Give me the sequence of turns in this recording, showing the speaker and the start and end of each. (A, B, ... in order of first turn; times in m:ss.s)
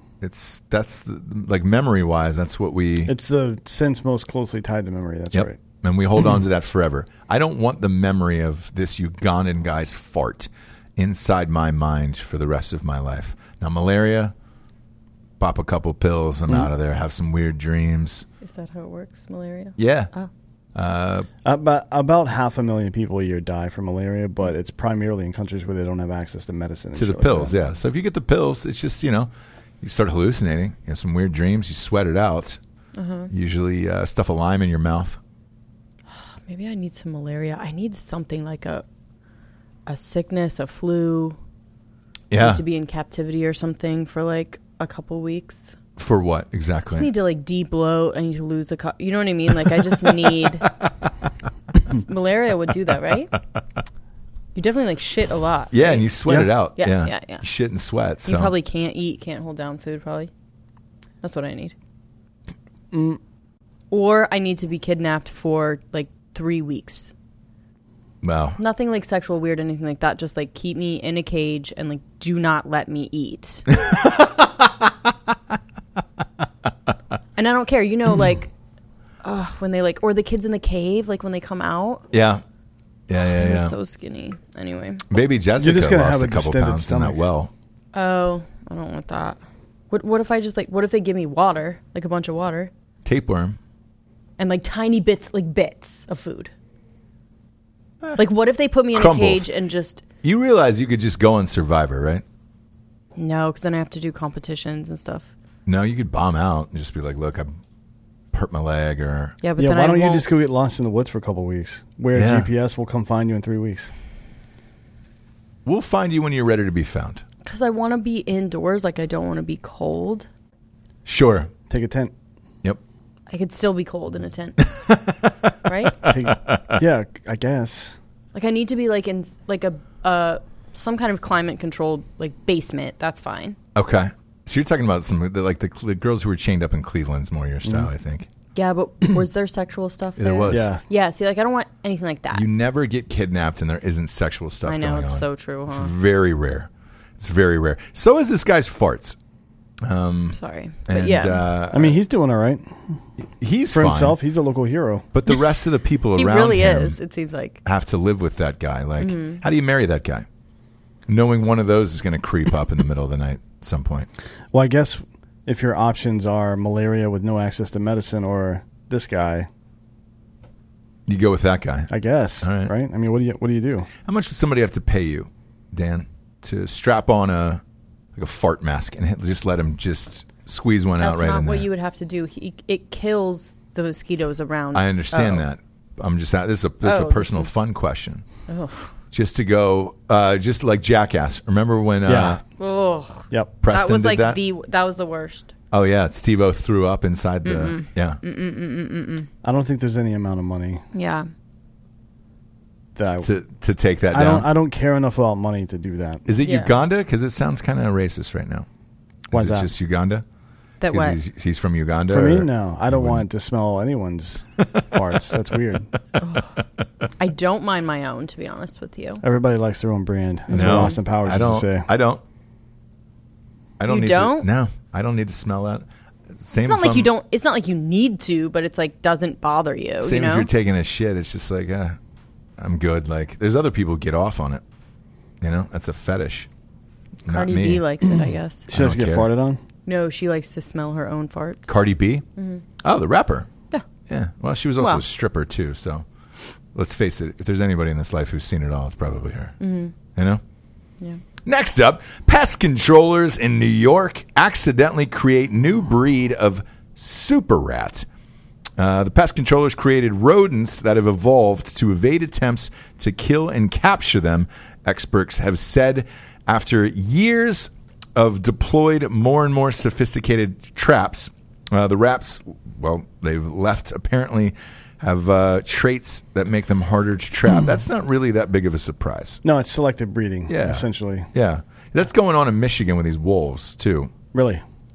0:00.2-0:03.1 A
0:03.0-0:05.6 B
0:05.3-0:14.3 A
0:15.4-0:18.2 A
0:18.4-0:20.3 C
0:19.8-0:20.1 A
0:20.7-0:21.3 A
0:21.4-0:27.5 B
0:26.9-0:29.3 A
0:29.8-0:32.6 A
0:33.0-0:33.3 C
0:33.3-0:35.2 A
0:36.1-0:38.8 C
0:39.8-0:41.4 C
0:42.3-0:42.6 A
0:42.4-0:45.8 C
0:46.0-0:47.1 A
0:46.9-0:50.7 C
0:51.8-0:53.4 C
0:54.5-0:56.1 C
0:55.7-0:58.5 A
0:56.3-0:56.5 B
0:56.8-0:57.4 C
0:58.2-1:00.3 C
1:01.2-1:01.7 C
1:02.9-1:03.2 B
1:03.9-1:07.1 C
1:08.2-1:08.6 A
1:08.6-1:13.7 C
1:13.7-1:15.1 A
1:17.4-1:18.5 C
1:19.2-1:22.0 C
1:22.1-1:22.4 A
1:23.1-1:23.7 A
1:23.2-1:25.0 C
1:25.1-1:27.5 A
1:25.6-1:27.2 B
1:27.9-1:29.4 C
1:29.9-1:32.7 C
1:33.0-1:33.6 A
1:34.4-1:36.5 C
1:38.2-1:40.0 C
1:38.9-1:39.5 A
1:40.2-1:42.2 A
1:43.2-1:45.3 C
1:45.6-1:47.6 A
1:48.3-1:49.4 A
1:49.4-1:50.3 C
1:49.6-1:53.9 B
1:52.1-1:52.5 A
1:55.6-1:57.2 A
1:57.4-2:00.3 C
2:01.0-2:01.5 A
2:01.7-2:02.1 B
2:03.3-2:04.6 C
2:04.6-2:06.8 A
2:05.6-2:06.0 C
2:06.0-2:07.9 B
2:08.3-2:13.6 C
2:13.7-2:18.3 A
2:18.5-2:22.4 C
2:20.2-2:20.7 A
2:20.5-2:20.8 B
2:22.3-2:29.2 A
2:24.6-2:25.9 C
2:29.8-2:32.0 A
2:30.3-2:31.5 C
2:31.7-2:32.8 B
2:33.4-2:34.2 A
2:33.7-2:35.1 B
2:35.1-2:37.0 A
2:36.2-2:37.6 C
2:37.6-2:40.2 A
2:39.0-2:39.4 C
2:41.1-2:44.1 A
2:44.5-2:49.5 B
2:51.1-2:51.9 A
2:51.9-2:53.9 B
2:52.4-2:52.7 A
2:54.0-2:57.6 A
2:58.1-3:01.7 A
3:01.0-3:05.4 C
3:04.7-3:08.2 A
3:06.8-3:07.5 C
3:08.5-3:08.9 C
3:09.1-3:12.4 A
3:12.0-3:12.4 B
3:12.6-3:15.5 C
3:13.6-3:14.4 A
3:15.7-3:18.2 A
3:17.4-3:19.3 C
3:19.4-3:20.8 B
3:20.9-3:21.3 C
3:22.9-3:23.3 B
3:23.2-3:24.5 A
3:24.1-3:26.2 B
3:26.3-3:28.6 A
3:26.4-3:26.7 C
3:29.3-3:30.2 A
3:29.3-3:29.7 B
3:30.8-3:31.2 C
3:30.9-3:33.2 A
3:32.1-3:35.9 B
3:36.2-3:36.5 C
3:37.2-3:39.2 C
3:39.2-3:41.9 B
3:40.5-3:41.0 C
3:40.5-3:42.2 A
3:43.8-3:45.8 A
3:43.9-3:44.5 C
3:46.4-3:47.1 A
3:46.6-3:50.5 C
3:50.0-3:52.0 A
3:52.6-3:54.6 A
3:55.4-3:56.5 A
3:57.2-3:57.8 A
3:57.3-3:58.7 C
3:58.7-3:59.6 B
3:58.7-3:59.3 A
3:59.8-4:01.7 C
4:01.7-4:02.2 A
4:02.4-4:02.6 C
4:02.8-4:03.5 A
4:04.1-4:06.0 A
4:06.7-4:09.5 A
4:09.6-4:09.9 C
4:10.1-4:10.4 A
4:11.4-4:18.0 A
4:18.8-4:39.4 A
4:39.4-4:41.3 B
4:40.5-4:44.1 A
4:44.3-4:44.6 B